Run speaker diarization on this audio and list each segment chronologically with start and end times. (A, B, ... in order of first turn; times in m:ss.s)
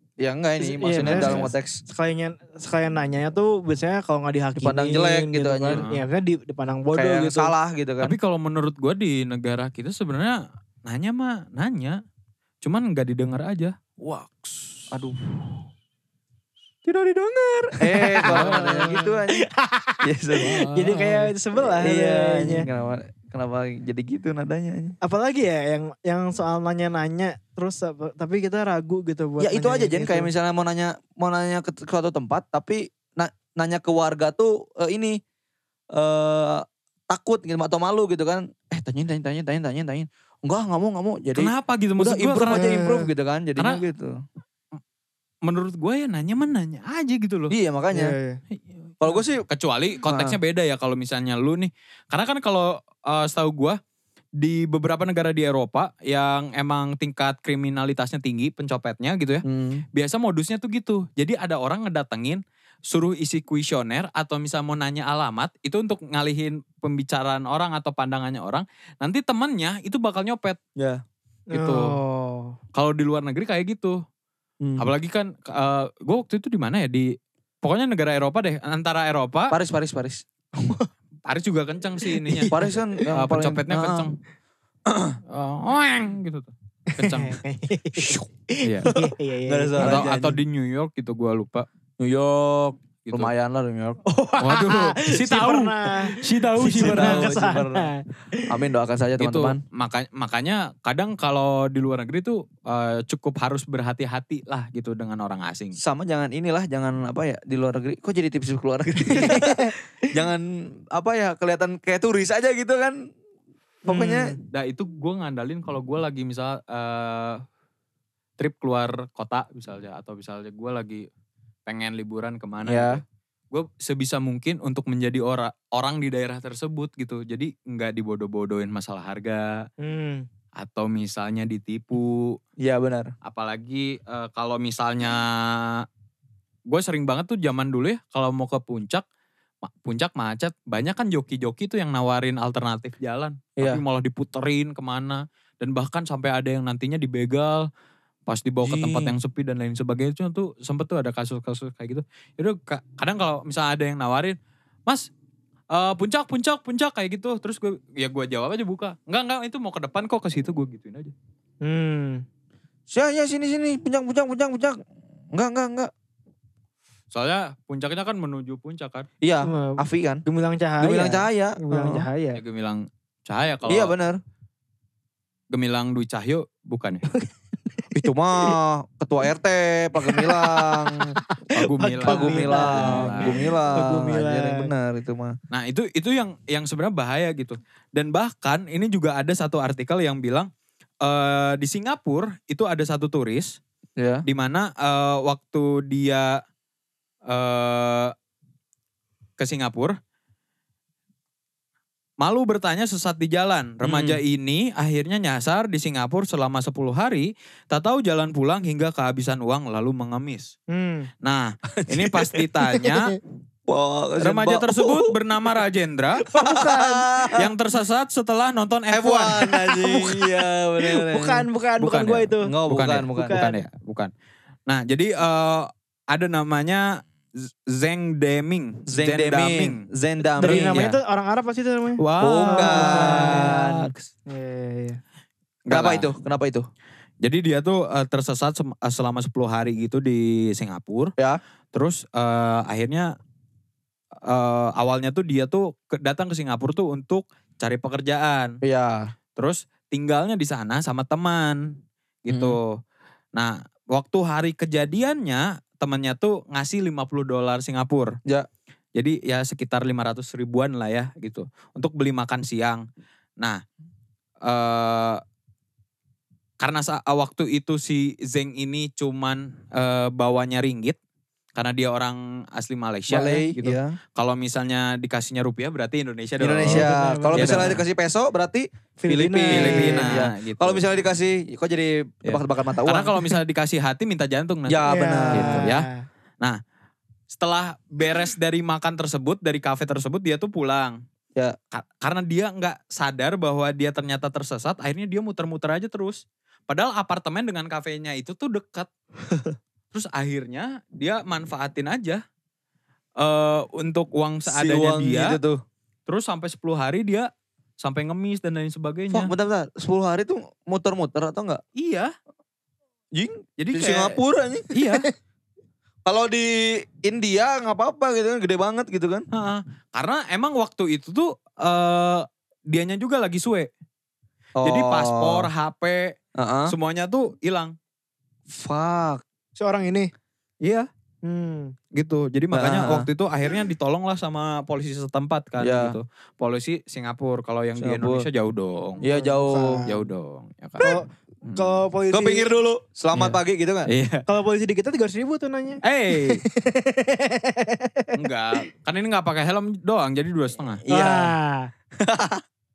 0:00.2-0:01.8 A
0:00.6-0:07.5 B
0:01.0-0:01.5 C
0:04.6-0:05.8 A
0:05.7-0:06.0 C
0:06.9-0:08.2 A
0:08.0-0:12.0 C
0:12.6-0:14.9 C
0:14.9-0:15.5 A
0:17.8-0:19.4 A
0:17.8-0:22.6 B
0:18.2-0:18.9 C
0:20.0-0:20.7 A
0:20.4-0:21.3 C
0:21.6-0:25.0 A
0:25.0-0:30.3 B
0:29.4-0:35.2 A
0:35.9-0:44.2 A
0:41.3-0:42.8 C
0:42.5-0:43.1 B
0:45.4-0:47.5 C
0:47.5-0:48.1 A
0:47.9-0:48.4 B
0:49.0-0:49.4 A
0:49.0-0:53.8 C
0:50.0-0:50.4 A
0:54.4-1:10.6 C
0:59.4-0:59.8 A
1:10.8-1:11.0 A
1:11.5-1:12.6 B
1:11.5-1:11.9 C
1:12.7-1:14.0 C
1:14.6-1:14.9 A
1:14.8-1:19.6 C
1:19.5-1:20.2 A
1:21.3-1:22.6 C
1:22.1-1:23.0 B
1:22.5-1:24.1 A
1:23.1-1:24.2 C
1:24.9-1:25.2 A
1:25.3-1:27.4 C
1:26.9-1:30.1 B
1:28.6-1:28.9 C
1:28.8-1:30.4 A
1:29.8-1:31.7 C
1:32.0-1:34.0 A
1:33.0-1:33.3 C
1:34.0-1:38.4 B
1:34.4-1:37.3 C
1:36.6-1:37.9 A
1:38.5-1:39.6 A
1:39.2-1:45.8 C
1:45.8-1:53.0 A
1:49.0-1:49.8 B
1:53.8-1:54.3 A
1:53.9-1:54.4 B
1:54.5-1:57.4 C
1:58.4-2:01.1 C
2:01.7-2:09.7 C
2:02.6-2:03.0 A
2:09.8-2:10.3 B
2:10.6-2:12.4 C
2:12.6-2:13.1 A
2:13.2-2:15.8 C
2:16.7-2:19.0 C
2:19.6-2:27.7 C
2:23.6-2:23.8 A
2:28.3-2:35.1 C
2:28.6-2:29.2 A
2:35.7-2:41.1 C
2:41.6-2:42.2 B
2:42.9-2:44.8 A
2:45.3-2:45.9 A
2:47.1-2:49.1 C
2:49.2-2:50.2 A
2:49.4-2:52.4 B
2:50.8-2:52.1 A
2:52.3-2:53.9 C
2:53.7-2:54.2 A
2:55.5-2:57.0 C
2:57.9-3:01.1 A
3:00.0-3:04.7 B
3:01.5-3:03.5 C
3:02.0-3:05.4 A
3:05.5-3:10.5 C
3:11.0-3:13.6 C
3:14.0-3:14.2 A
3:14.2-3:16.4 C
3:17.3-3:18.1 C
3:19.4-3:20.0 C
3:22.2-3:30.5 C
3:23.8-3:24.2 A
3:30.7-3:31.1 B
3:31.2-3:33.1 C
3:31.8-3:32.5 A
3:33.7-3:35.1 A
3:34.2-3:36.3 C
3:36.3-3:37.5 A
3:36.4-3:37.0 B
3:37.4-3:39.6 C
3:38.9-3:41.4 A
3:39.7-3:42.5 B
3:41.8-3:44.1 C
3:42.4-3:43.4 A
3:43.2-3:43.6 B
3:44.7-3:49.8 C
3:48.9-3:50.8 A
3:50.4-3:51.0 C
3:50.4-3:53.5 B
3:52.0-3:54.0 C
3:52.2-3:53.9 A
3:54.3-3:55.0 B
3:55.7-3:56.1 C
3:55.7-3:56.7 A
3:57.2-4:01.1 C
4:01.7-4:03.1 C
4:04.2-4:08.6 C
4:08.6-4:09.1 A
4:09.4-4:12.8 C
4:12.3-4:12.6 A
4:13.3-4:18.1 C
4:19.0-4:22.8 C
4:24.4-4:25.2 C
4:26.6-4:31.0 C
4:31.5-4:37.8 C
4:33.1-4:34.0 A
4:36.4-4:43.3 A
4:36.6-4:37.8 B
4:39.0-4:40.2 B
4:39.5-4:40.8 C
4:42.2-4:45.9 C
4:44.7-4:45.7 A
4:44.9-4:46.0 B
4:47.3-4:51.0 C
4:51.7-4:58.9 C
4:59.3-4:59.5 A
4:59.9-5:02.2 C
5:03.2-5:05.4 C
5:04.5-5:05.6 A
5:06.1-5:09.3 C
5:09.1-5:11.6 A
5:11.8-5:12.1 C
5:13.1-5:14.8 A
5:13.6-5:14.2 C
5:14.7-5:15.1 C
5:16.0-5:19.2 A
5:19.3-5:23.7 C
5:24.6-5:25.5 A
5:24.6-5:26.1 C
5:26.4-5:26.7 A
5:26.7-5:27.7 C
5:28.5-5:29.2 A
5:29.6-5:30.1 B
5:30.6-5:30.9 C
5:31.2-5:31.7 B
5:31.9-5:39.0 C
5:32.5-5:33.1 A
5:35.6-5:36.0 A
5:37.8-5:38.2 A
5:39.0-5:39.8 A
5:39.0-5:40.0 B
5:39.8-5:41.8 C
5:40.8-5:42.5 B
5:42.1-5:43.9 A
5:43.1-5:44.2 C
5:44.3-5:48.1 B
5:45.8-5:46.4 C
5:48.2-5:50.8 C
5:50.8-5:51.3 A
5:50.9-5:51.7 B
5:52.0-5:52.4 A